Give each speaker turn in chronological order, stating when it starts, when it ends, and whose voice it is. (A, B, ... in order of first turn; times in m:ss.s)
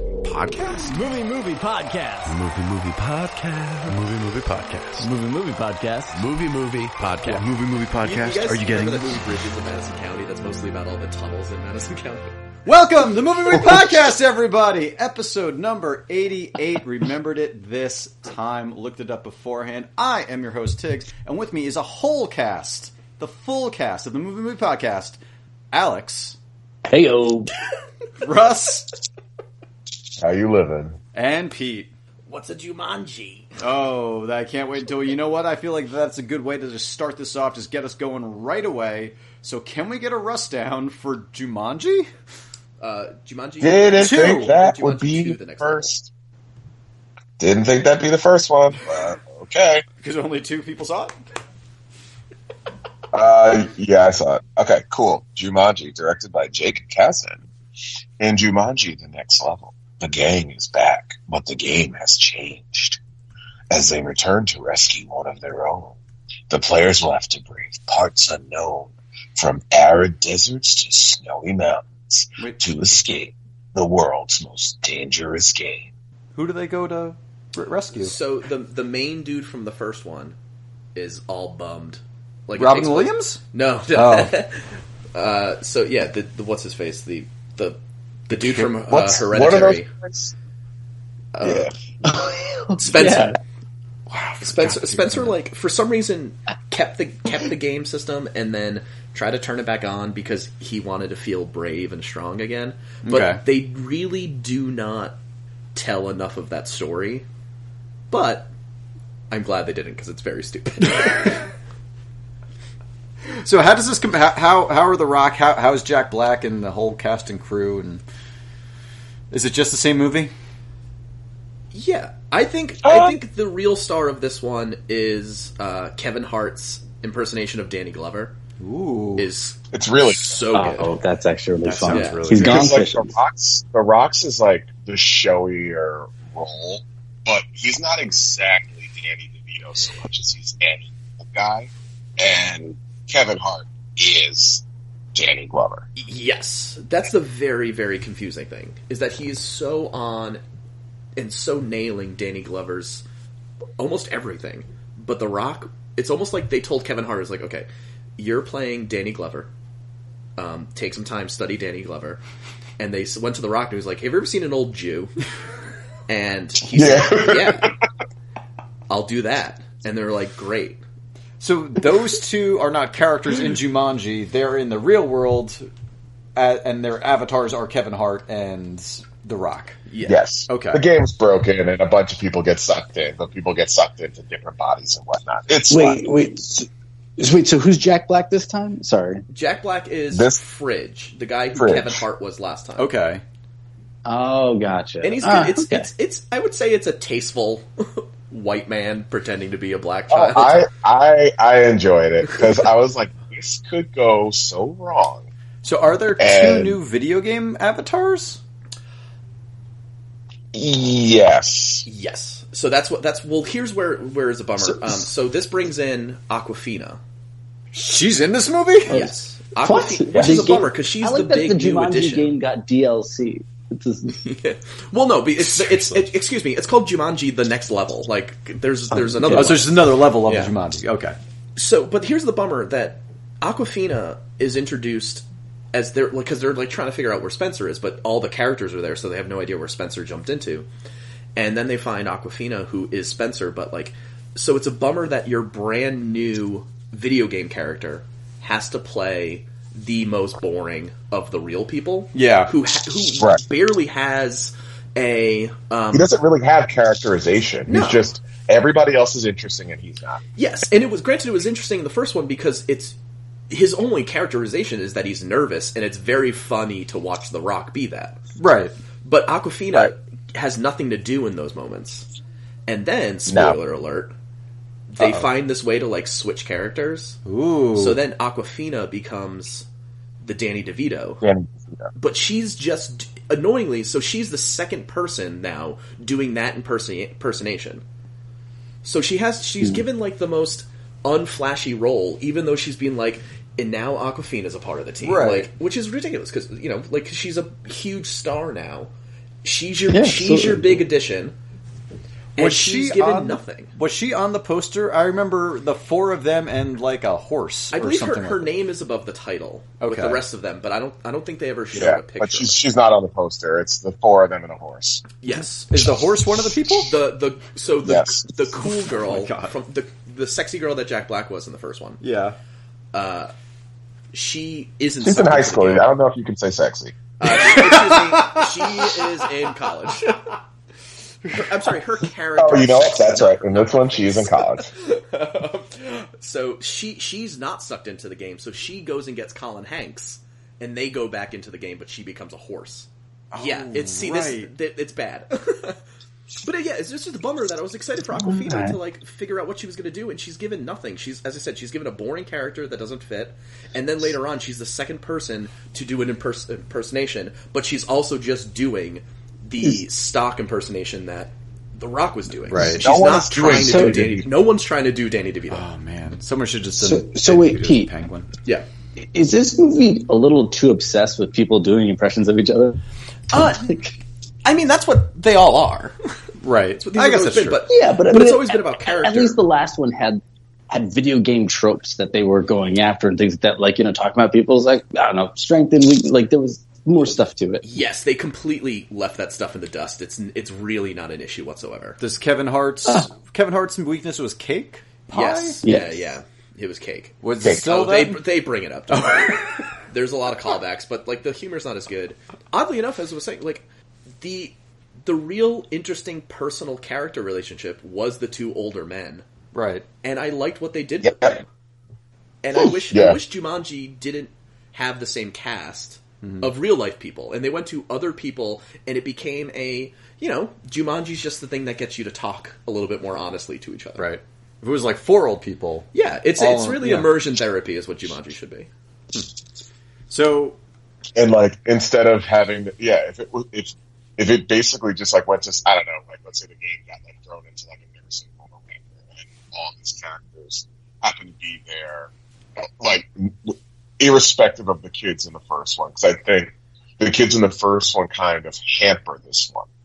0:00.2-0:01.1 A
0:00.6-0:02.4 B
0:02.2-0:05.1 A
0:03.9-0:06.0 B
0:06.1-0:09.2 A
0:07.2-0:07.5 B
0:08.0-0:12.3 C
0:12.6-0:25.2 B
0:25.7-0:26.4 B
0:26.8-0:27.5 D
0:28.2-0:28.9 B
0:30.2-0:31.0 E
0:31.1-0:31.9 B
0:32.3-0:33.5 C
0:33.6-0:42.1 B
0:42.8-0:45.9 C
0:43.6-0:46.1 E
0:44.0-0:44.5 B
0:47.4-0:49.8 E
0:50.0-0:51.1 B
0:53.1-0:57.4 E
0:58.2-1:03.0 E
1:03.7-1:06.0 E
1:06.5-1:15.9 E
1:12.4-1:12.7 B
1:16.3-1:18.1 B
1:17.9-1:20.4 C
1:20.9-1:29.9 C
1:22.6-1:23.4 B
1:23.9-1:24.3 B
1:28.3-1:28.7 B
1:28.9-1:30.3 E
1:31.3-1:31.7 C
1:31.4-1:31.7 E
1:32.0-1:33.4 D
1:32.8-1:33.4 C
1:34.1-1:35.4 B
1:34.4-1:45.2 C
1:43.0-1:43.4 B
1:45.7-1:47.2 C
1:48.1-1:48.5 C
1:49.3-1:51.4 C
1:53.4-1:58.0 B
1:59.3-2:00.3 B
2:01.7-2:08.3 C
2:02.8-2:03.1 E
2:08.6-2:09.3 B
2:09.2-2:10.9 C
2:09.7-2:10.4 E
2:10.5-2:13.1 D
2:11.6-2:12.8 B
2:11.9-2:12.4 C
2:12.3-2:24.6 E
2:25.1-2:25.9 E
2:26.0-2:30.4 C
2:31.2-2:33.0 C
2:33.8-2:37.6 C
2:38.2-2:39.5 C
2:40.4-2:42.2 C
2:42.8-2:45.1 C
2:46.1-2:47.7 C
2:46.7-2:47.7 E
2:48.9-2:50.8 C
2:51.4-2:55.6 B
2:56.4-2:59.8 B
2:59.9-3:00.2 C
3:00.0-3:06.0 E
3:00.5-3:00.8 B
3:05.7-3:09.2 D
3:09.3-3:12.9 C
3:10.1-3:10.4 E
3:11.5-3:12.0 E
3:12.8-3:13.2 B
3:14.0-3:15.9 D
3:15.0-3:20.6 C
3:20.1-3:25.3 E
3:25.6-3:28.4 B
3:26.2-3:26.8 E
3:30.5-3:31.8 E
3:31.8-3:37.0 C
3:37.7-3:39.0 B
3:38.9-3:44.2 D
3:38.9-3:42.3 C
3:40.1-3:40.5 E
3:44.1-3:50.5 C
3:45.4-3:46.1 B
3:49.0-3:49.6 D
3:49.3-3:51.2 B
3:51.6-4:00.7 C
4:01.4-4:16.1 C
4:12.1-4:12.5 B
4:15.9-4:20.2 E
4:17.7-4:18.1 C
4:20.4-4:23.0 C
4:23.5-4:28.2 C
4:28.4-4:28.7 B
4:29.0-4:32.1 C
4:32.7-4:34.1 C
4:33.3-4:33.6 E
4:34.9-4:37.2 C
4:35.0-4:35.2 B
4:37.2-4:38.0 B
4:37.7-4:39.6 C
4:40.2-4:41.2 C
4:41.2-4:41.9 E
4:41.9-4:47.8 C
4:48.8-4:58.9 C
4:55.0-4:55.5 B
4:59.4-5:01.3 C
4:59.9-5:00.8 D
5:02.4-5:03.7 C
5:02.4-5:08.4 B
5:07.7-5:12.6 C
5:09.8-5:10.2 B
5:11.7-5:15.0 E
5:15.2-5:15.7 C
5:15.3-5:16.9 B
5:16.8-5:22.0 C
5:17.8-5:18.3 E
5:18.6-5:19.5 B
5:22.0-5:22.4 B
5:22.9-5:23.3 C
5:24.1-5:25.9 C
5:25.0-5:26.9 E
5:27.2-5:30.2 C
5:27.3-5:28.9 B
5:31.3-5:45.8 C
5:32.4-5:34.7 E
5:43.3-5:44.5 B
5:46.4-6:05.6 C
5:48.1-5:48.8 D
6:02.5-6:02.9 B
6:02.7-6:04.4 E
6:03.4-6:04.1 D
6:05.5-6:08.3 B
6:06.8-6:07.9 D
6:09.0-6:12.8 D
6:13.3-6:13.8 C
6:13.3-6:13.9 D
6:14.4-6:16.0 C
6:16.4-6:17.6 B
6:16.8-6:19.4 C
6:17.7-6:27.6 D
6:27.6-6:32.0 C
6:32.0-6:35.6 B
6:35.1-6:43.6 C
6:35.6-6:36.0 D
6:37.2-6:38.2 B
6:37.4-6:37.7 E
6:38.9-6:39.6 B
6:44.2-6:49.2 C
6:49.5-6:49.8 B
6:50.0-6:51.5 C
6:51.0-6:51.4 E
6:52.4-7:04.0 C
6:52.5-6:53.2 E
6:56.2-6:56.5 B
7:04.0-7:07.1 B
7:05.9-7:08.7 C
7:10.1-7:10.6 B
7:11.2-7:29.7 E